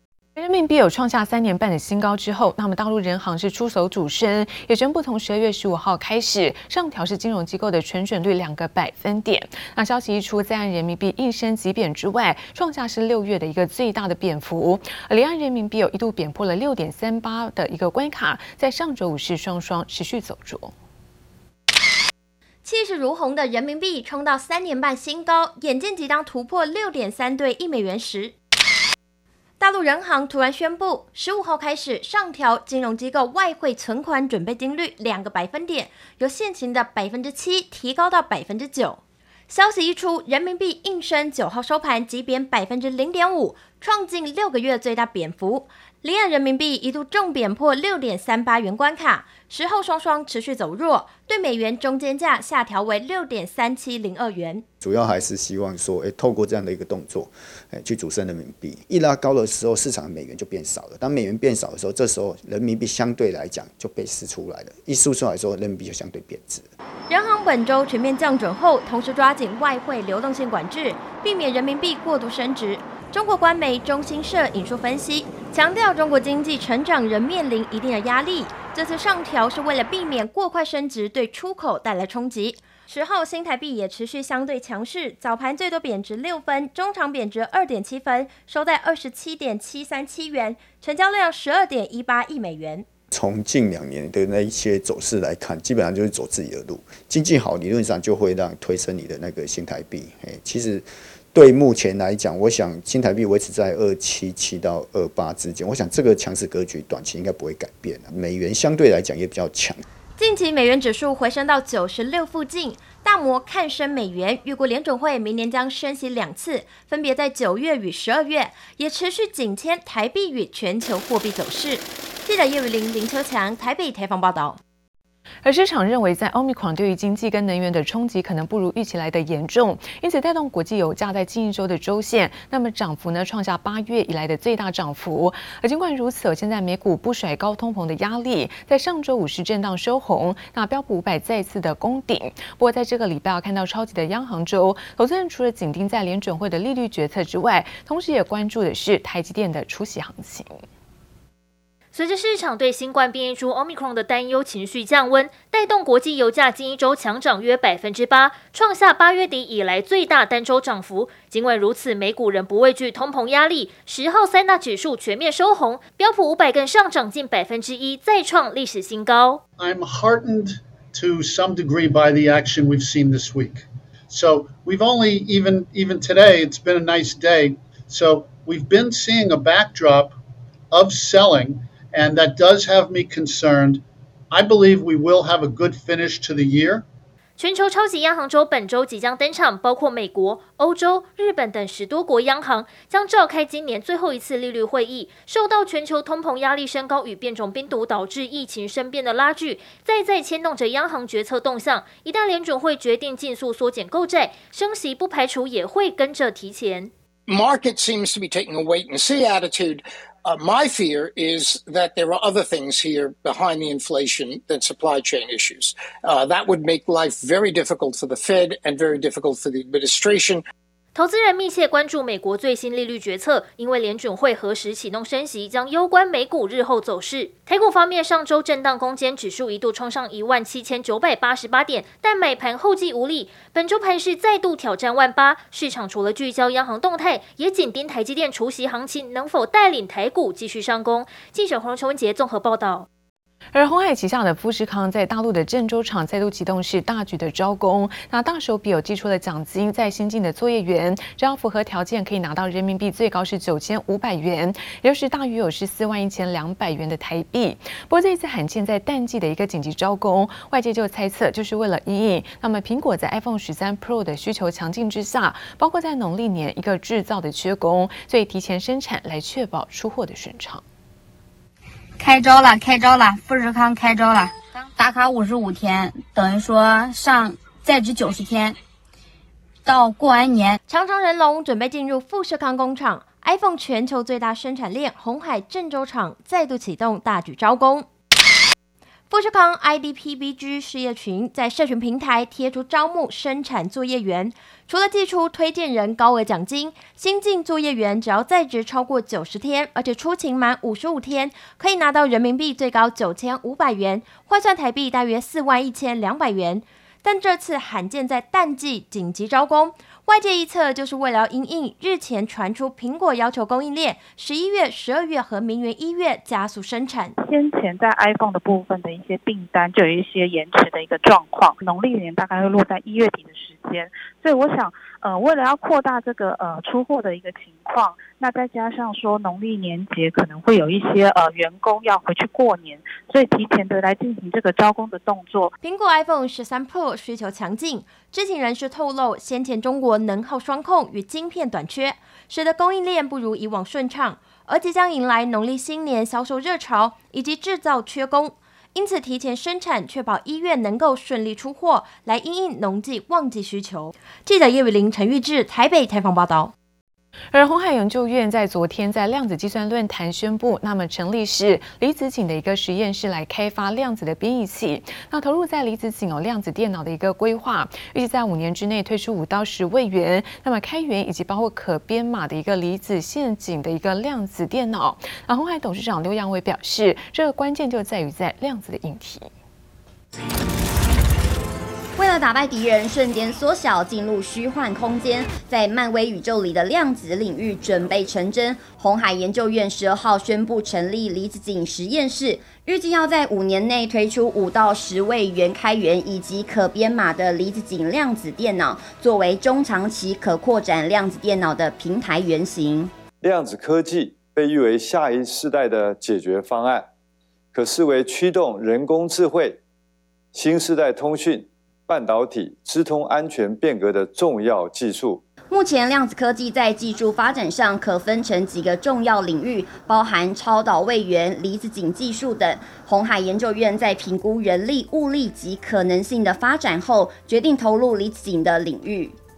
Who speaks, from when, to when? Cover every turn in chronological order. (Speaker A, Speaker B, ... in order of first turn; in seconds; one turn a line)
Speaker A: 0.4-20.7
Speaker B: 22.6-28.4
Speaker B: 29.6-54.6
Speaker C: 54.8-66.7
Speaker B: 67.1-92.8
Speaker C: 93.1-109.8
Speaker B: 110.2-124.6
Speaker A: 125.4-150.6
Speaker D: 151.9-169.4
Speaker E: 169.6-180.1
Speaker E: 180.7-183.8
Speaker E: 184.3-186.8
Speaker D: 187.4-206.9
Speaker F: 207.3-220.4
Speaker D: 220.9-242.9
Speaker A: 243.5-270.6
Speaker G: 272.0-278.6
Speaker G: 279.7-280.6
Speaker B: 280.7-287.9
Speaker B: 289.1-317.2
Speaker H: 317.2-335.5
Speaker B: 335.6-356.5
Speaker A: 357.3-379.3
Speaker I: 382.0-402.9
Speaker J: 403.2-406.9
Speaker J: 407.5-409.6
Speaker J: 410.3-415.2
Speaker I: 415.5-429.1